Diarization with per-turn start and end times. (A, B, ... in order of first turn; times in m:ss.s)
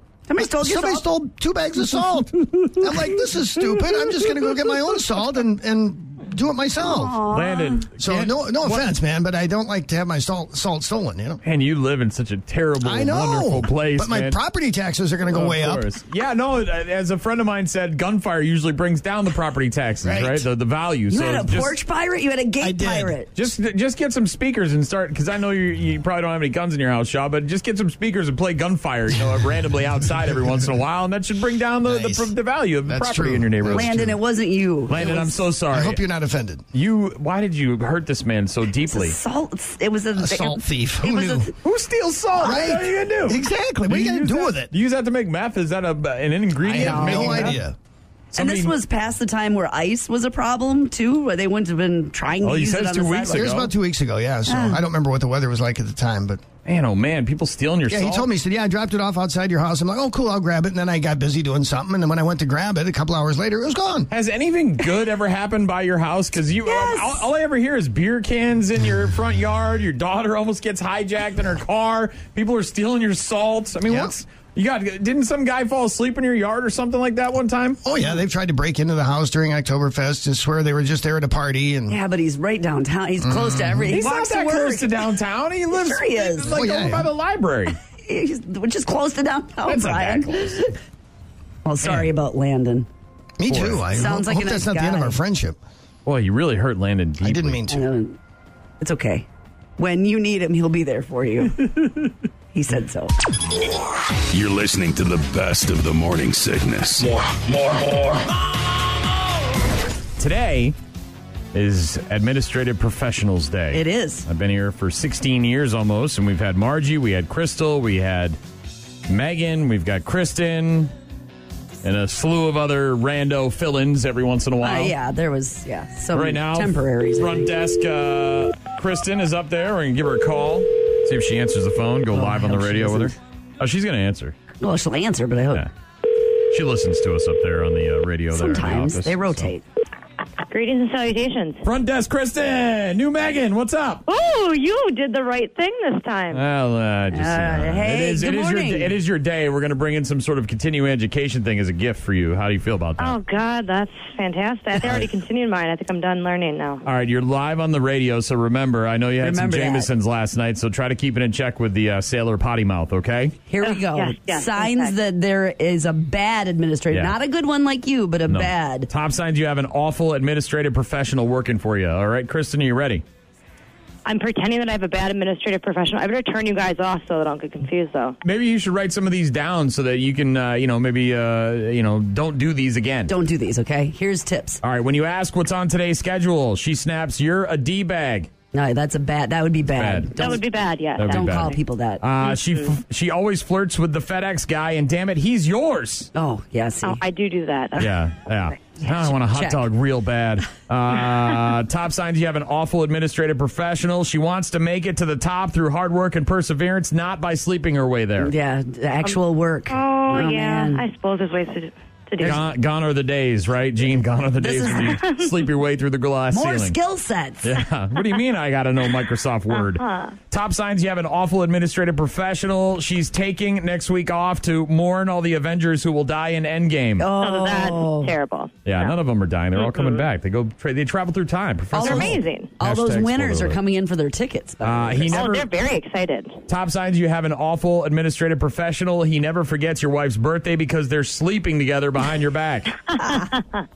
0:00.3-0:01.0 A
0:00.3-0:07.2 B
0:06.8-0:07.9 A
0:07.3-0:08.9 C
0:08.0-0:11.4 B
0:11.4-0:14.4 C
0:12.8-0:15.8 B
0:15.3-0:21.8 C
0:20.0-0:20.5 B
0:21.1-0:23.3 A
0:22.6-0:23.2 B
0:23.3-0:34.1 C
0:31.8-0:32.3 B
0:32.9-0:34.2 B
0:33.7-0:35.4 A
0:34.9-0:36.0 C
0:35.7-0:36.6 B
0:36.7-0:39.2 C
0:38.8-0:41.5 A
0:40.2-0:41.5 B
0:41.6-0:47.6 C
0:42.4-0:44.7 B
0:46.6-0:47.7 B
0:46.8-0:47.6 A
0:48.3-0:48.7 C
0:48.4-0:53.4 A
0:52.4-0:53.7 C
0:53.3-0:56.4 B
0:54.5-0:54.8 A
0:56.6-0:58.3 C
0:57.9-1:04.1 B
1:04.1-1:17.8 C
1:06.6-1:07.2 A
1:13.8-1:14.1 B
1:17.8-1:22.0 B
1:21.9-1:25.0 A
1:23.2-1:23.9 B
1:23.9-1:27.8 C
1:25.7-1:26.5 A
1:26.4-1:27.1 B
1:28.0-1:30.7 A
1:29.7-1:30.7 C
1:31.6-1:32.9 A
1:33.4-1:35.6 B
1:33.5-1:33.8 C
1:33.9-1:35.2 A
1:36.0-1:37.6 C
1:37.2-1:37.8 B
1:37.7-1:38.2 A
1:38.8-1:39.2 A
1:39.8-1:41.7 A
1:42.5-1:43.1 A
1:44.3-1:47.2 D
1:50.2-1:50.8 C
1:51.5-1:58.4 C
1:53.7-1:54.2 A
1:59.1-2:00.9 C
2:01.8-2:05.0 C
2:04.6-2:07.5 A
2:06.1-2:14.3 C
2:12.1-2:13.1 A
2:14.6-2:15.6 A
2:16.5-2:19.5 C
2:18.3-2:19.6 A
2:20.5-2:21.6 E
2:21.6-2:24.0 C
2:24.1-2:26.4 E
2:26.3-2:33.2 C
2:27.1-2:28.9 A
2:33.0-2:36.8 E
2:36.8-2:43.4 C
2:39.2-2:39.9 A
2:43.5-2:48.9 A
2:43.6-2:45.0 E
2:46.9-2:47.2 C
2:48.3-2:53.0 C
2:54.0-2:58.2 E
2:58.2-3:03.1 C
3:03.1-3:04.6 A
3:04.6-3:08.3 C
3:08.5-3:10.4 A
3:09.7-3:10.4 C
3:10.2-3:11.6 E
3:11.0-3:16.1 C
3:11.1-3:12.0 A
3:12.2-3:12.8 E
3:16.1-3:17.0 A
3:16.8-3:17.9 E
3:17.8-3:28.3 C
3:18.8-3:19.6 A
3:28.2-3:30.8 A
3:29.7-3:32.4 E
3:32.2-3:36.8 C
3:34.4-3:35.0 A
3:34.9-3:35.4 E
3:36.3-3:37.6 A
3:37.4-3:47.1 C
3:39.6-3:40.1 E
3:47.0-3:48.1 A
3:47.1-3:48.9 E
3:48.6-3:53.6 C
3:49.5-3:50.0 E
3:51.7-3:55.2 A
3:51.8-3:52.5 E
3:54.6-3:55.5 C
3:55.1-3:56.4 E
3:56.5-4:02.8 C
4:02.9-4:03.6 E